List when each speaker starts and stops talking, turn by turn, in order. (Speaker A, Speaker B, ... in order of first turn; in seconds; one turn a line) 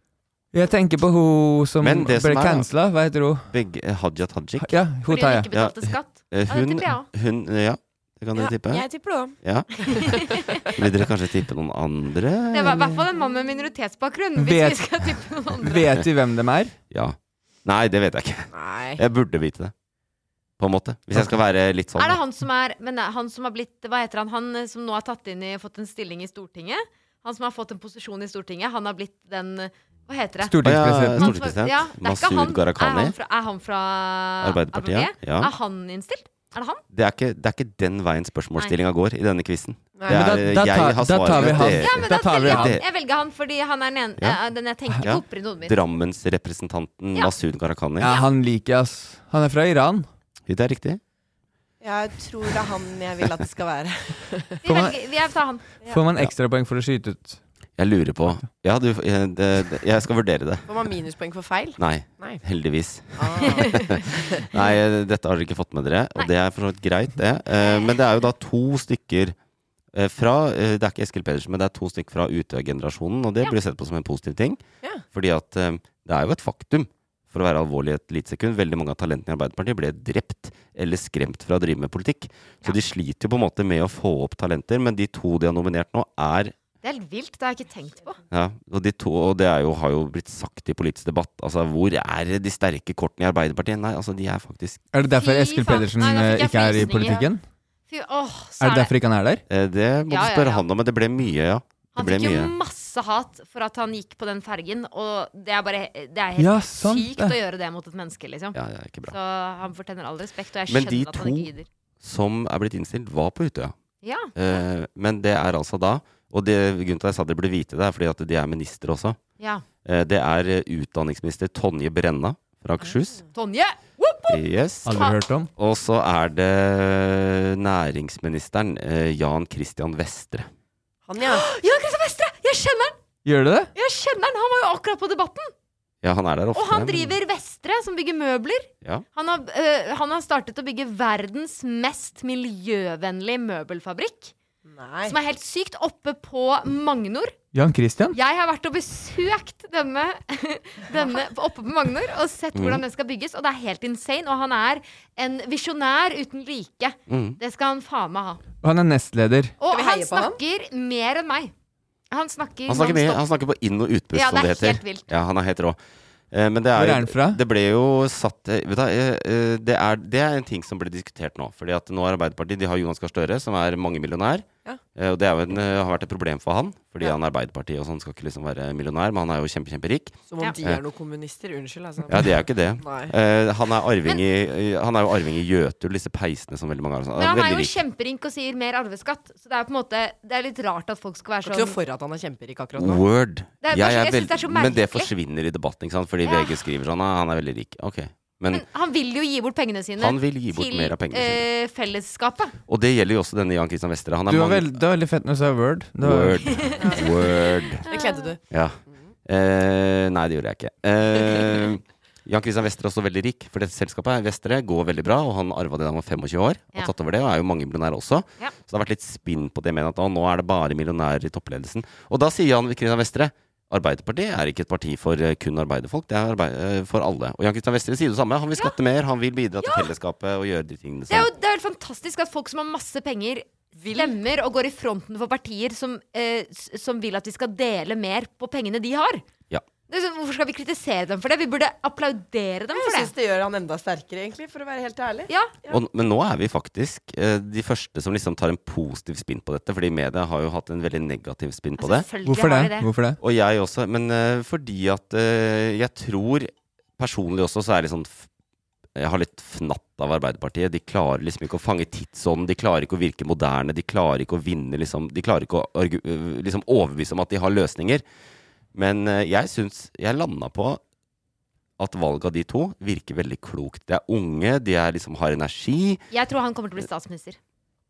Speaker A: 0.5-3.5
Speaker B: 1.8-2.7
Speaker B: 3.5-4.8
Speaker A: 4.6-5.5
Speaker C: 5.1-7.1
Speaker B: 5.5-13.0
Speaker D: 8.3-10.1
Speaker C: 9.8-10.7
Speaker C: 12.5-15.9
Speaker A: 14.4-14.9
Speaker A: 15.6-16.8
Speaker B: 16.9-19.7
Speaker D: 18.5-19.0
Speaker B: 20.6-22.2
Speaker C: 22.0-30.6
Speaker A: 30.4-31.3
Speaker B: 30.6-33.1
Speaker C: 31.2-36.8
Speaker B: 34.4-35.5
Speaker B: 36.9-42.8
Speaker D: 40.0-40.3
Speaker A: 40.1-42.8
Speaker C: 41.3-45.8
Speaker B: 45.0-48.1
Speaker A: 48.0-50.1
Speaker C: 48.0-48.3
Speaker B: 50.5-51.0
Speaker D: 51.8-54.6
Speaker C: 54.6-55.7
Speaker A: 54.7-55.0
Speaker A: 55.8-57.4
Speaker B: 57.8-60.7
Speaker D: 60.7-62.4
Speaker B: 61.8-69.3
Speaker D: 63.2-63.8
Speaker C: 67.6-68.0
Speaker B: 69.9-86.5
Speaker C: 86.8-88.2
Speaker B: 88.3-94.8
Speaker A: 94.9-97.4
Speaker C: 95.1-97.3
Speaker C: 97.9-98.9
Speaker A: 98.6-99.4
Speaker B: 99.5-102.5
Speaker C: 100.1-100.7
Speaker C: 102.0-111.7
Speaker A: 106.4-107.4
Speaker B: 108.5-109.2
Speaker B: 110.7-111.5
Speaker B: 112.0-113.7
Speaker C: 114.0-114.3
Speaker B: 114.3-119.2
Speaker C: 119.4-119.7
Speaker B: 119.8-123.2
Speaker C: 123.3-124.4
Speaker B: 124.3-130.5
Speaker A: 124.8-125.5
Speaker D: 131.1-131.4
Speaker C: 131.2-133.0
Speaker A: 133.2-133.7
Speaker C: 133.8-135.5
Speaker B: 136.0-137.2
Speaker C: 136.5-144.3
Speaker D: 144.7-145.2
Speaker C: 145.1-147.3
Speaker A: 147.5-148.2
Speaker C: 148.1-158.4
Speaker B: 152.6-152.8
Speaker B: 157.1-157.4
Speaker A: 158.6-159.5
Speaker C: 159.6-161.5
Speaker D: 159.7-160.4
Speaker C: 162.1-163.2
Speaker B: 162.7-165.8
Speaker C: 164.1-165.1
Speaker B: 166.3-180.8
Speaker A: 166.8-167.4
Speaker D: 180.3-183.1
Speaker B: 182.1-187.7
Speaker C: 187.2-191.8
Speaker D: 191.4-193.0
Speaker B: 192.8-198.6
Speaker C: 193.6-195.1
Speaker C: 196.2-196.6
Speaker C: 198.5-202.6
Speaker B: 200.0-201.4
Speaker B: 202.7-204.7
Speaker A: 204.3-206.5
Speaker B: 206.0-207.9
Speaker C: 206.5-207.1
Speaker D: 206.8-207.3
Speaker D: 207.9-209.1
Speaker C: 207.9-208.4
Speaker B: 208.5-231.3
Speaker C: 229.6-229.9
Speaker C: 231.1-239.2
Speaker D: 233.8-234.2
Speaker C: 239.9-243.1
Speaker D: 242.7-245.8
Speaker C: 245.3-245.6
Speaker B: 245.7-252.1
Speaker C: 251.8-252.9
Speaker A: 252.2-253.2
Speaker B: 253.2-258.2
Speaker B: 259.0-268.0
Speaker B: 268.8-270.8
Speaker B: 271.8-276.0
Speaker C: 276.1-277.4